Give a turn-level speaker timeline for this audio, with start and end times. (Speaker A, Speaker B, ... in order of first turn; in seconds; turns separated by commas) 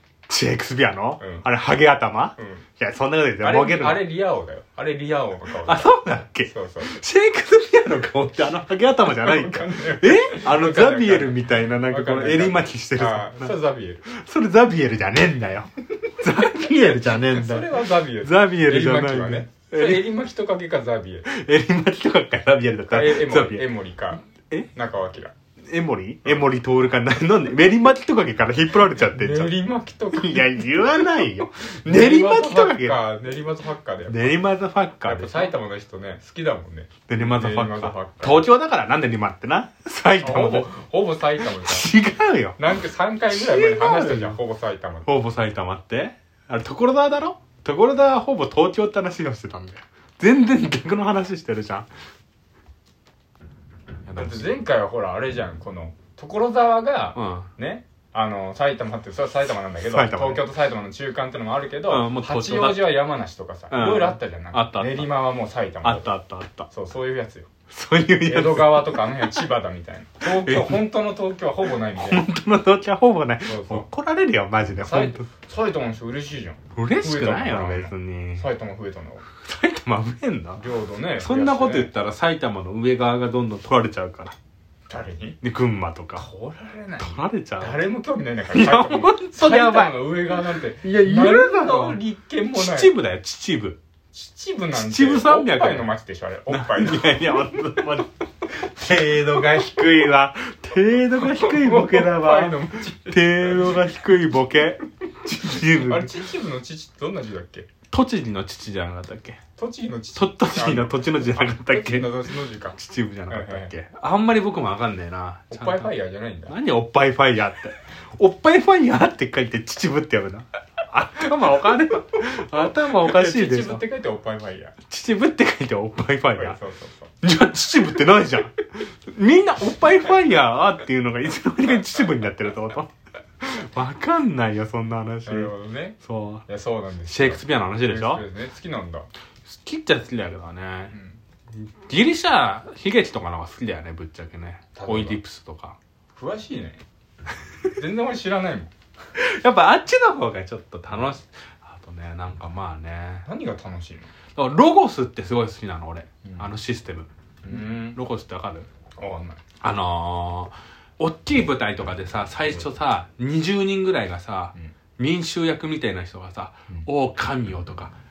Speaker A: 0.3-4.0, Speaker B: 1.2-1.5, Speaker B: 2.4-2.7, Speaker B: 3.4-7.0, Speaker A: 5.6-13.5, Speaker B: 9.0-14.1, Speaker A: 14.1-20.1, Speaker B: 16.5-21.3, Speaker A: 21.3-23.7, Speaker B: 22.9-24.2, Speaker B: 24.7-25.3, Speaker A: 25.7-29.6, Speaker B: 26.2-26.5, Speaker B: 28.9-34.4, Speaker A: 30.1-33.0, Speaker A: 34.1-35.5, Speaker B: 35.0-38.5, Speaker A: 37.1-40.8, Speaker B: 40.2-41.9, Speaker A: 41.4-42.6, Speaker B: 42.6-45.1, Speaker A: 43.3-44.4, Speaker A: 45.1-51.9, Speaker A: 54.1-54.6, Speaker B: 54.1-66.1, Speaker A: 57.2-57.5, Speaker A: 59.9-60.5, Speaker A: 61.9-63.0, Speaker A: 63.7-65.2, Speaker A: 65.8-66.7, Speaker B: 66.7-67.5, Speaker A: 67.7-69.4, Speaker B: 68.2-72.2, Speaker A: 70.2-70.9, Speaker A: 72.0-75.3, Speaker B: 73.5-73.9, Speaker B: 74.8-79.2, Speaker A: 76.8-78.5, Speaker A: 79.4-80.7, Speaker B: 80.6-81.9, Speaker A: 81.2-84.4, Speaker B: 84.9-85.4, Speaker A: 85.4-86.3, Speaker B: 86.2-92.9, Speaker A: 87.0-87.8, Speaker A: 88.5-92.0, Speaker A: 92.5-93.8, Speaker B: 94.1-97.7, Speaker A: 94.7-95.9, Speaker A: 96.5-106.1, Speaker B: 101.2-103.9, Speaker B: 105.3-107.7, Speaker A: 107.9-109.4, Speaker B: 109.6-113.7, Speaker A: 110.2-115.9, Speaker B: 115.5-116.6, Speaker A: 116.5-123.8, Speaker B: 122.4-124.8, Speaker A: 124.8-126.6, Speaker B: 126.4-127.1, Speaker A: 127.2-132.9, Speaker A: 133.4-136.4, Speaker B: 135.3-139.1, Speaker A: 137.1-138.2, Speaker A: 139.5-140.9, Speaker B: 140.9-141.2, Speaker A: 141.6-145.8, Speaker B: 144.8-145.2, Speaker B: 146.2-146.8, Speaker B: 147.8-148.7, Speaker A: 149.2-153.3, Speaker B: 153.2-154.1, Speaker A: 154.4-158.7, Speaker B: 156.2-156.5, Speaker B: 157.4-158.0, Speaker B: 159.0-159.4, Speaker A: 159.6-167.9